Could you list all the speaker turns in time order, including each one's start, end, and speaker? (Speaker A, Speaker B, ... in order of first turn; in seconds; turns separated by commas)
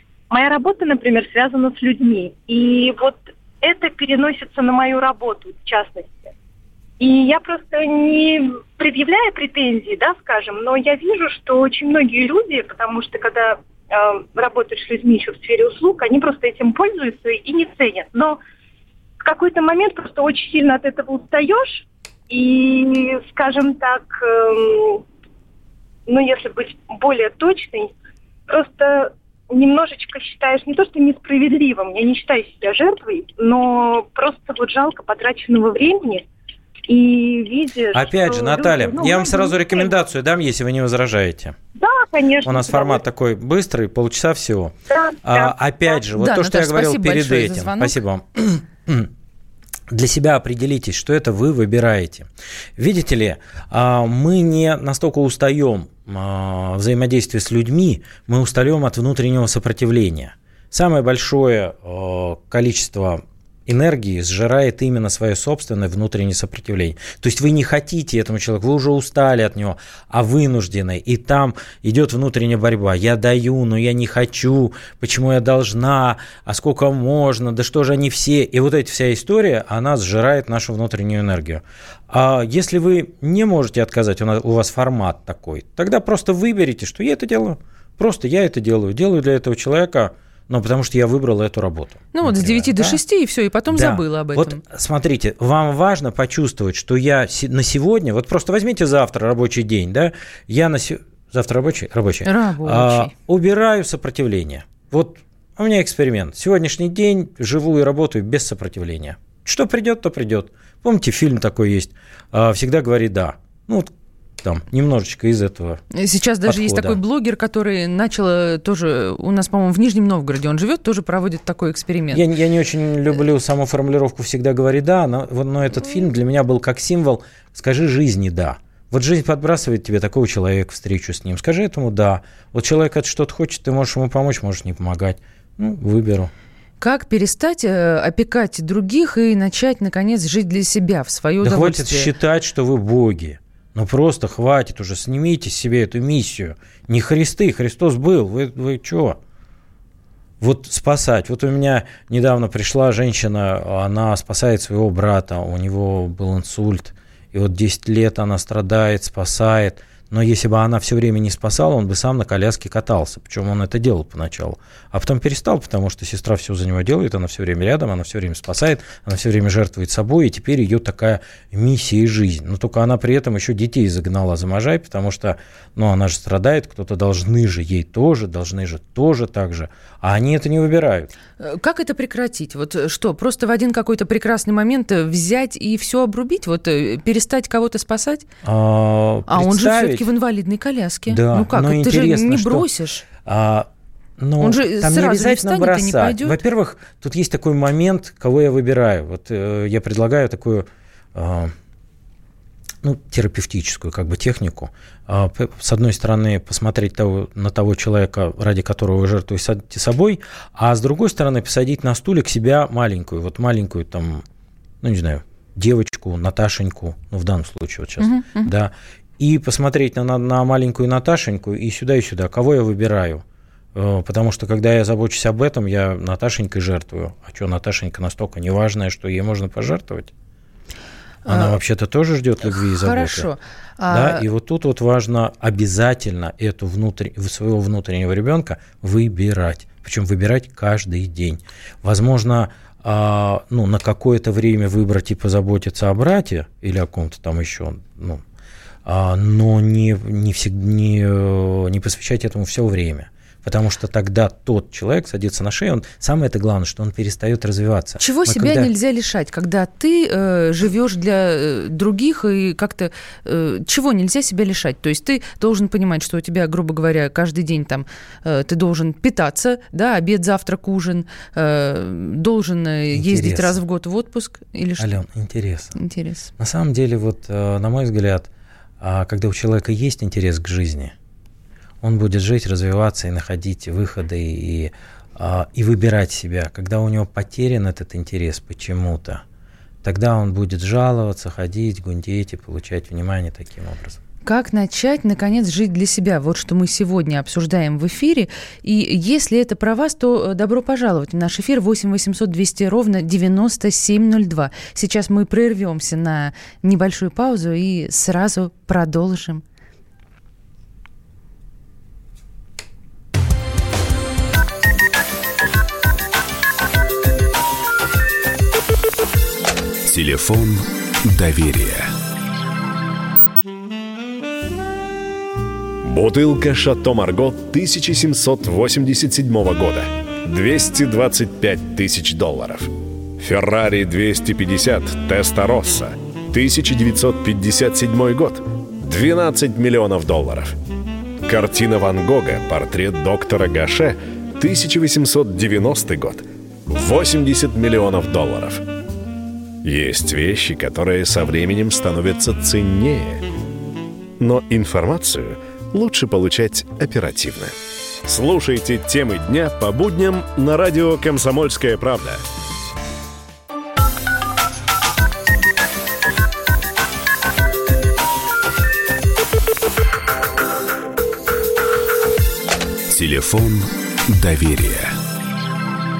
Speaker A: 0.3-6.3, Speaker A: 7.0-18.4, Speaker A: 19.2-25.0, Speaker A: 26.1-27.9, Speaker A: 28.5-36.2, Speaker A: 36.9-39.9, Speaker B: 37.9-41.5, Speaker A: 41.8-43.0, Speaker B: 42.4-49.1, Speaker A: 44.9-45.5, Speaker C: 46.1-48.0, Speaker B: 49.9-93.0, Speaker C: 92.1-94.6, Speaker B: 93.7-115.8, Speaker C: 102.2-103.1, Speaker C: 115.9-122.2, Speaker B: 116.4-117.0, Speaker B: 122.1-136.3, Speaker C: 136.8-142.1, Speaker B: 141.4-149.2, Speaker B: 150.4-181.1, Speaker C: 181.4-188.2, Speaker B: 188.4-190.1, Speaker C: 189.3-193.0, Speaker B: 191.1-192.7, Speaker B: 193.2-201.5, Speaker C: 194.4-196.4, Speaker B: 202.8-214.2, Speaker B: 214.8-230.1, Speaker C: 218.0-218.5, Speaker C: 231.2-231.6, Speaker B: 231.2-233.3, Speaker C: 232.5-234.2, Speaker B: 233.9-248.2, Speaker B: 248.8-258.7, Speaker C: 258.0-274.9, Speaker B: 272.9-273.6, Speaker B: 274.8-275.8, Speaker C: 275.8-276.3, Speaker B: 276.4-278.3, Speaker B: 278.8-280.9, Speaker B: 281.8-289.2, Speaker B: 289.8-294.0, Speaker C: 294.2-309.4, Speaker D: 319.8-321.9, Speaker E: 325.8-340.5, Speaker E: 341.2-348.6, Speaker E: 349.6-353.2, Speaker E: 354.2-357.5, Speaker E: 358.0-362.2, Speaker D: 372.9-374.9